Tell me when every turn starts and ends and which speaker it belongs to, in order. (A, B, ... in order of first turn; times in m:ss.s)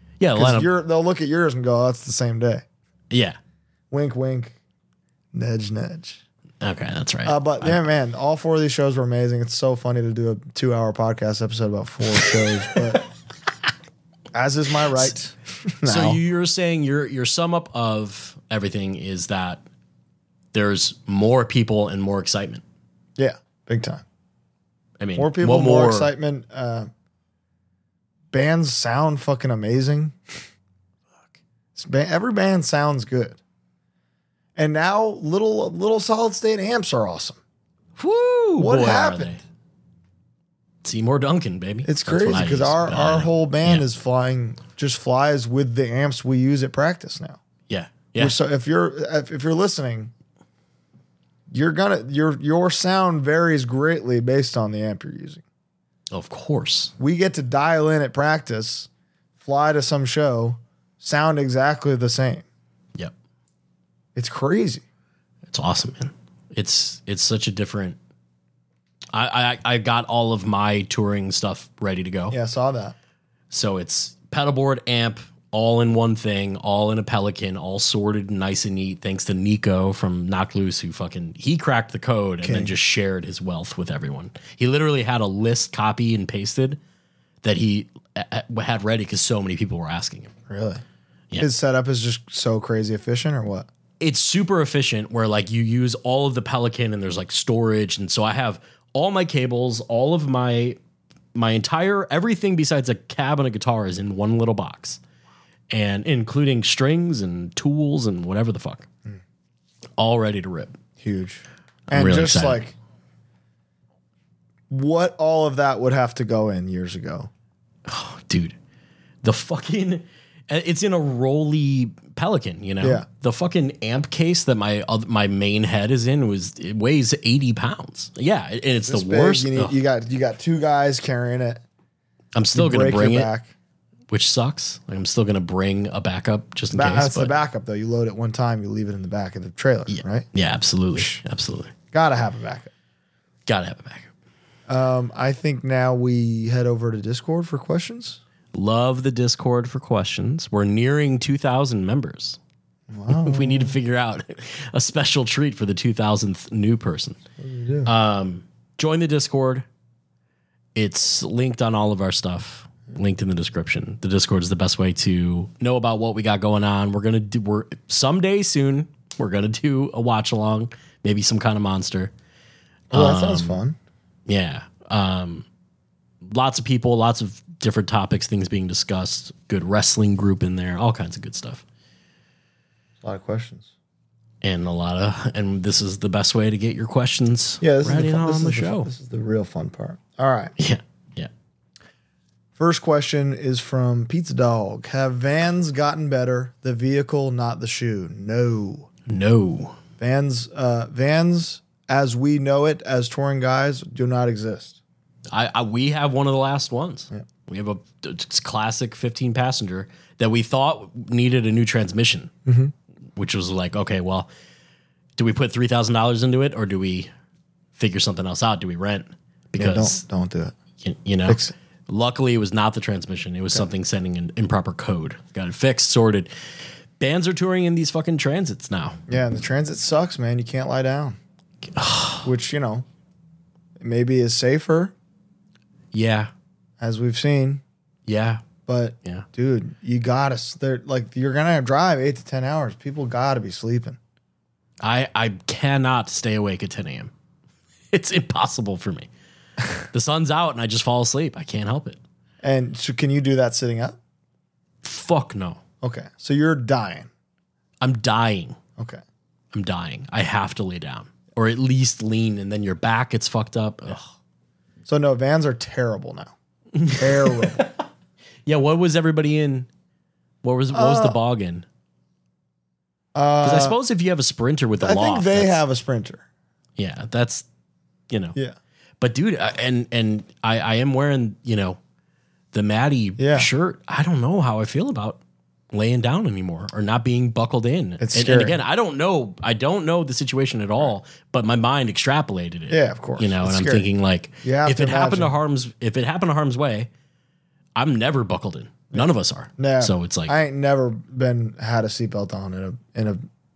0:00.2-0:00.7 A
0:00.4-0:02.6 B
0:03.1-0:03.4 A
0:03.9-0:04.6 B
0:05.3-0:06.2 B
0:06.6-0:07.8 A
0:07.2-0:13.1 B
0:14.3-0:16.2 B
0:15.8-0:19.6 A
0:20.5-0:22.6 A
0:23.2-0:24.0 B
0:25.0-0:26.1 A
0:25.2-0:26.9 B
0:28.3-0:30.4 B
0:31.8-0:33.4 B
0:34.6-0:37.4 B
0:38.0-0:39.4 A
0:38.6-0:39.4 B
0:40.8-0:43.8 A
0:41.8-0:47.4 B
0:47.7-0:48.4 A
0:48.2-0:50.1 B
0:51.5-0:55.4 B
0:56.1-0:56.9 A
0:57.0-0:58.9 B
0:59.4-1:02.4 B
1:04.2-1:04.8 B
1:05.5-1:08.0 A
1:09.1-1:12.4 A
1:12.3-1:13.0 B
1:13.5-1:26.8 A
1:22.4-1:22.8 B
1:27.4-1:30.3 A
1:30.5-1:30.8 B
1:31.4-1:33.7 B
1:34.0-1:40.8 A
1:41.4-1:45.0 A
1:45.7-1:48.9 A
1:50.0-1:50.8 A
1:51.0-1:52.8 B
1:51.9-1:52.6 A
1:54.7-1:57.3 B
1:57.9-1:58.6 A
1:59.2-2:09.8 A
2:02.8-2:03.1 B
2:08.9-2:11.6 B
2:12.4-2:13.3 A
2:12.5-2:13.5 B
2:14.1-2:17.4 A
2:16.7-2:20.3 B
2:19.9-2:21.7 A
2:21.0-2:21.2 B
2:21.9-2:22.7 B
2:23.5-2:24.1 A
2:24.7-2:28.2 B
2:28.5-2:32.4 A
2:32.9-2:33.8 B
2:33.1-2:37.2 A
2:37.4-2:37.9 B
2:37.8-2:39.6 A
2:40.8-2:52.1 A
2:52.9-2:53.6 A
2:52.9-2:53.8 B
2:54.3-2:55.4 A
2:56.2-3:01.6 A
3:03.0-3:03.7 B
3:04.4-3:08.9 A
3:07.6-3:10.6 B
3:10.6-3:11.3 A
3:12.6-3:18.9 B
3:19.1-3:19.8 A
3:20.0-3:24.8 B
3:25.3-3:32.3 A
3:32.5-3:32.7 B
3:33.2-3:34.3 A
3:35.2-3:37.1 A
3:37.8-3:40.0 A
3:39.6-3:40.6 B
3:40.8-3:46.3 A
3:41.3-3:41.6 B
3:47.0-3:49.0 A
3:49.1-3:51.2 B
3:51.7-3:52.3 A
3:52.2-3:52.9 B
3:53.8-3:54.9 B
3:55.9-3:56.3 A
3:56.8-3:57.6 B
3:58.1-3:58.4 A
3:58.7-4:04.0 B
4:04.8-4:07.1 A
4:07.9-4:09.1 A
4:09.9-4:12.0 A
4:12.4-4:14.0 B
4:14.8-4:15.6 A
4:15.8-4:17.1 B
4:17.8-4:18.6 A
4:18.8-4:19.0 B
4:19.5-4:24.1 A
4:24.9-4:26.3 B
4:26.8-4:27.8 A
4:26.9-4:27.7 B
4:28.5-4:29.7 A
4:30.4-4:31.6 A
4:30.7-4:31.2 B
4:33.2-4:33.8 B
4:33.4-4:35.6 A
4:34.8-4:36.3 B
4:36.8-4:37.4 A
4:38.1-4:38.4 A
4:39.0-4:41.8 A
4:42.5-4:45.2 A
4:43.2-4:43.5 B
4:45.7-4:56.9 A
4:48.0-4:48.6 B
4:52.7-4:53.9 B
4:54.4-4:55.4 B
4:57.8-5:00.4 A
4:58.9-5:03.2 B